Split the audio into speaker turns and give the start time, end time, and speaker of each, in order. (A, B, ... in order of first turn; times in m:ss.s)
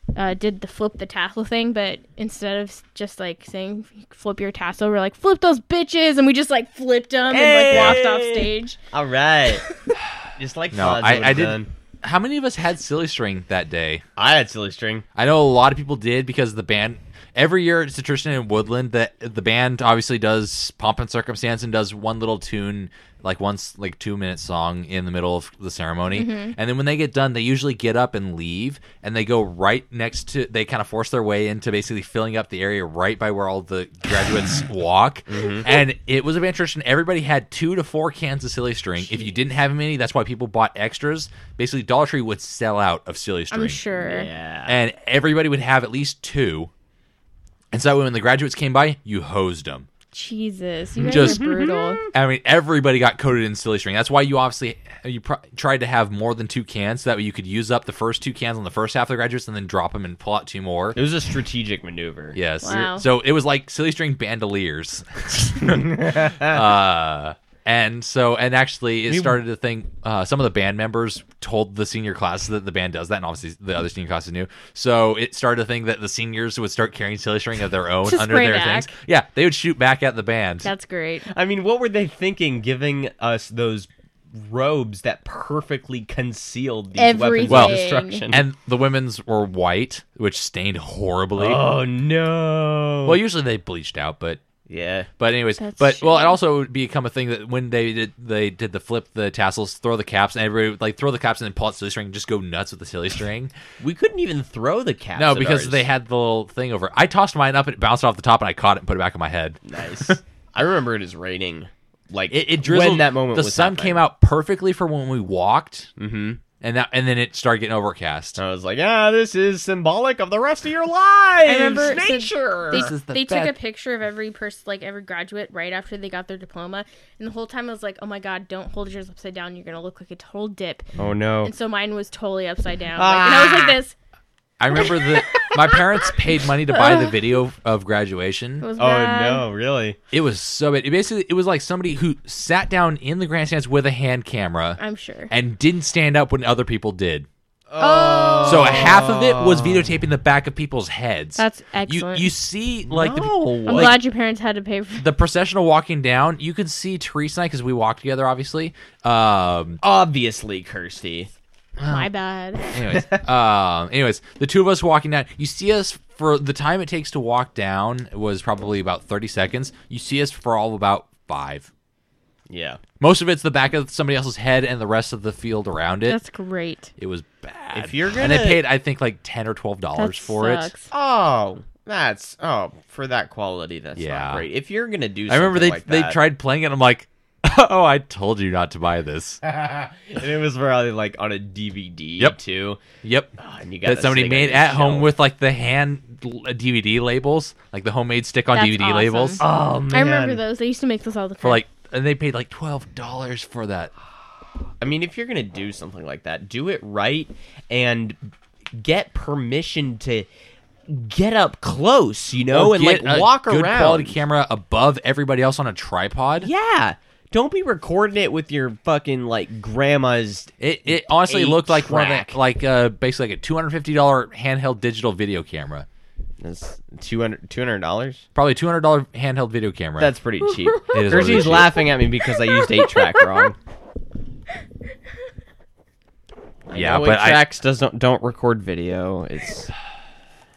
0:00.2-0:08.8 A
0:07.3-0:09.6 B
0:07.7-0:08.0 C
0:09.6-0:10.0 A
0:10.4-0:11.7 B
0:10.7-0:14.0 C
0:14.2-0:15.0 B
0:15.2-0:43.8 C
0:26.1-0:26.6 A
0:35.3-0:35.7 B
0:43.5-0:44.3 A
0:44.0-0:44.8 B
0:44.7-0:46.7 C
0:47.7-0:49.9 C
0:50.1-0:52.0 A
0:51.0-0:52.1 B
0:51.1-0:51.4 C
0:52.1-1:01.0 C
1:01.0-1:02.4 B
1:02.3-1:20.7 C
1:02.6-1:03.0 A
1:05.9-1:06.5 B
1:09.1-1:09.4 B
1:18.0-1:18.9 A
1:20.6-1:21.3 A
1:21.3-1:28.5 B
1:27.0-1:28.2 A
1:27.5-1:31.6 C
1:31.4-1:33.2 B
1:33.0-1:34.4 C
1:34.7-1:35.1 B
1:35.2-1:43.5 C
1:35.6-1:36.4 A
1:43.8-1:45.9 B
1:45.2-1:50.2 C
1:49.6-1:54.0 B
1:52.3-1:55.9 C
1:56.0-1:56.4 B
1:56.6-1:58.4 C
1:58.4-2:02.9 B
2:01.4-2:10.9 A
2:02.7-2:03.6 C
2:11.0-2:11.5 B
2:11.4-2:14.0 A
2:13.0-2:13.8 B
2:14.6-2:18.7 C
2:16.7-2:17.2 A
2:18.6-2:19.4 A
2:18.8-2:20.0 B
2:20.1-2:27.3 C
2:24.8-2:25.3 A
2:27.7-2:29.9 B
2:27.8-2:29.0 A
2:28.4-2:34.0 C
2:31.4-2:32.3 A
2:32.9-2:34.0 B
2:33.7-2:35.1 A
2:35.0-2:39.8 C
2:39.8-2:41.3 B
2:41.8-2:42.1 C
2:41.9-2:42.7 A
2:42.7-2:51.7 C
2:52.5-2:52.8 B
2:53.0-2:56.2 C
2:56.1-2:56.9 A
2:57.0-3:00.7 C
2:57.7-2:58.6 B
3:00.0-3:00.9 A
3:00.9-3:06.2 B
3:04.0-3:04.5 C
3:05.3-3:09.4 C
3:10.0-3:12.8 B
3:13.0-3:19.4 C
3:13.4-3:15.1 B
3:18.5-3:21.6 A
3:19.4-3:20.4 B
3:21.4-3:23.9 C
3:24.8-3:28.2 B
3:28.8-3:30.3 B
3:30.9-3:34.2 B
3:32.5-3:36.5 C
3:36.4-3:40.6 B
3:40.6-3:45.9 C
3:41.1-3:42.4 B
3:46.4-3:48.2 B
3:48.4-3:50.1 C
3:50.0-3:53.6 B
3:50.5-3:51.8 A
3:50.9-3:51.8 C
3:52.4-3:53.4 A
3:56.7-3:59.7 B
3:56.7-3:57.4 C